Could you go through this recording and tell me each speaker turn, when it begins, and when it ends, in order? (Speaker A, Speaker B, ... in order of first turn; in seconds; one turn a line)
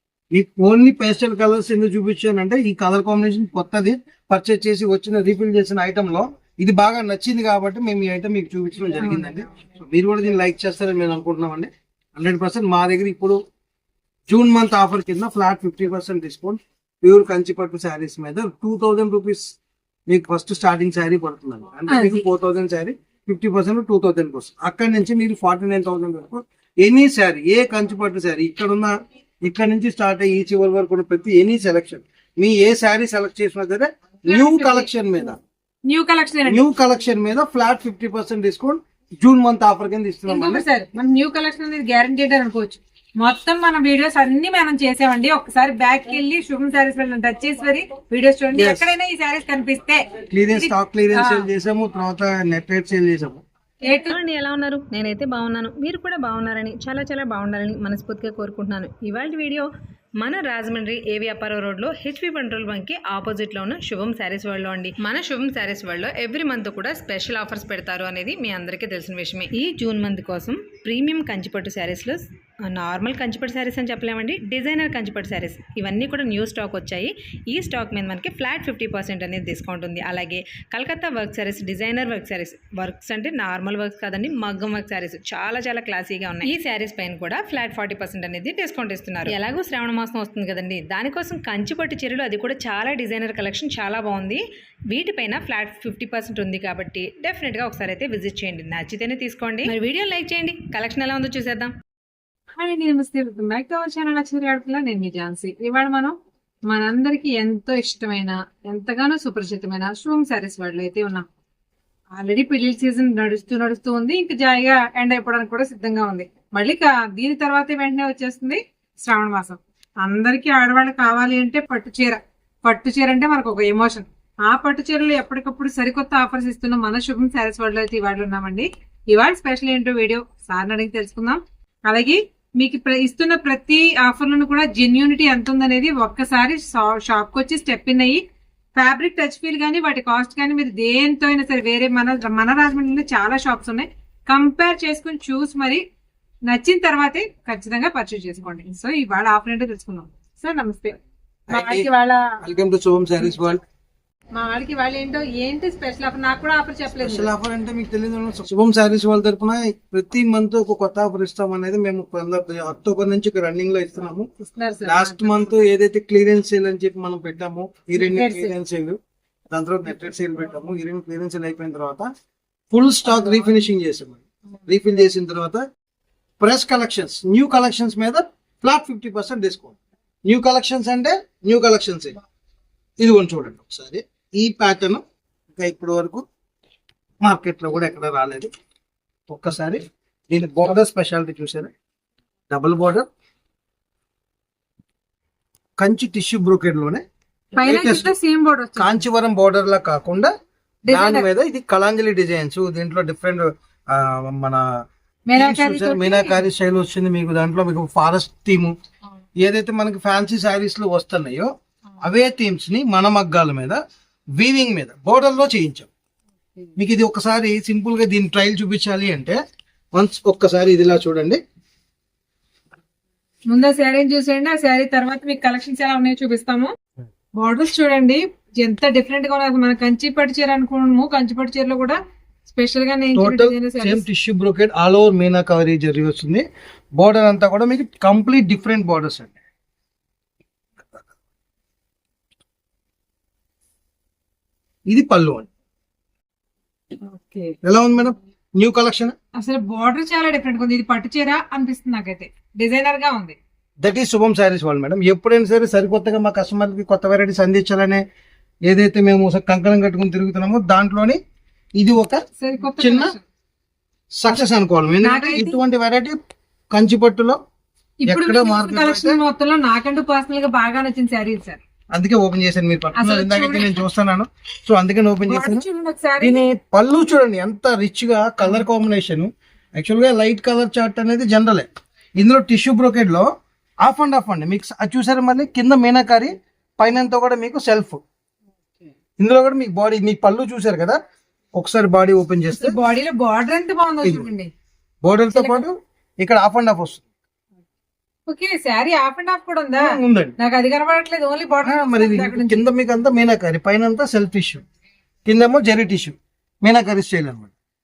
Speaker A: 0.3-13.4
Speaker A: 14.3-19.6
Speaker A: 20.1-35.4
Speaker B: 21.9-22.2
Speaker B: 34.3-34.9
Speaker B: 35.9-36.6
Speaker A: 36.5-40.6
Speaker B: 40.3-51.5
Speaker A: 48.5-48.9
Speaker A: 50.3-53.4
Speaker B: 53.8-54.1
Speaker C: 53.9-101.8
Speaker B: 102.6-111.3
Speaker B: 112.1-138.2
Speaker B: 138.8-145.8
Speaker B: 146.5-151.0
Speaker A: 151.5-151.9
Speaker B: 151.5-152.4
Speaker A: 152.4-153.6
Speaker B: 154.3-157.3
Speaker A: 157.0-164.3
Speaker B: 164.4-165.5
Speaker A: 164.8-169.0
Speaker B: 168.0-168.5
Speaker A: 169.5-172.1
Speaker A: 172.7-175.7
Speaker A: 176.4-182.2
Speaker A: 183.0-185.0
Speaker A: 185.6-186.2
Speaker A: 187.2-188.5
Speaker A: 189.3-191.7
Speaker A: 192.5-193.1
Speaker A: 195.8-197.0
Speaker B: 197.6-199.0
Speaker A: 197.6-198.1
Speaker A: 198.8-200.3
Speaker B: 200.9-201.3
Speaker A: 200.9-204.8
Speaker B: 205.3-206.4
Speaker A: 205.3-208.8
Speaker A: 209.4-213.8
Speaker A: 214.3-215.9
Speaker A: 216.8-219.4
Speaker A: 219.9-221.4
Speaker B: 223.5-226.7
Speaker B: 227.4-234.0
Speaker A: 233.2-236.4
Speaker A: 237.0-239.3
Speaker A: 244.9-245.5
Speaker B: 247.0-247.6
Speaker A: 247.6-249.2
Speaker B: 249.4-253.4
Speaker A: 253.8-258.0
Speaker A: 258.7-261.2
Speaker A: 261.8-262.2
Speaker B: 262.4-263.2
Speaker A: 262.8-263.1
Speaker A: 264.2-266.2
Speaker B: 265.0-265.6
Speaker A: 266.7-267.4
Speaker B: 268.0-271.6
Speaker A: 268.1-269.2
Speaker A: 271.9-275.6
Speaker B: 273.0-273.8
Speaker B: 275.3-276.4
Speaker A: 276.2-281.7
Speaker A: 282.2-283.3
Speaker A: 283.8-288.0
Speaker A: 289.2-291.0
Speaker A: 291.6-292.8
Speaker B: 292.6-294.5
Speaker A: 295.0-297.1
Speaker B: 295.3-295.6
Speaker B: 298.3-302.6
Speaker A: 299.8-300.4
Speaker A: 301.6-304.6
Speaker A: 305.3-307.5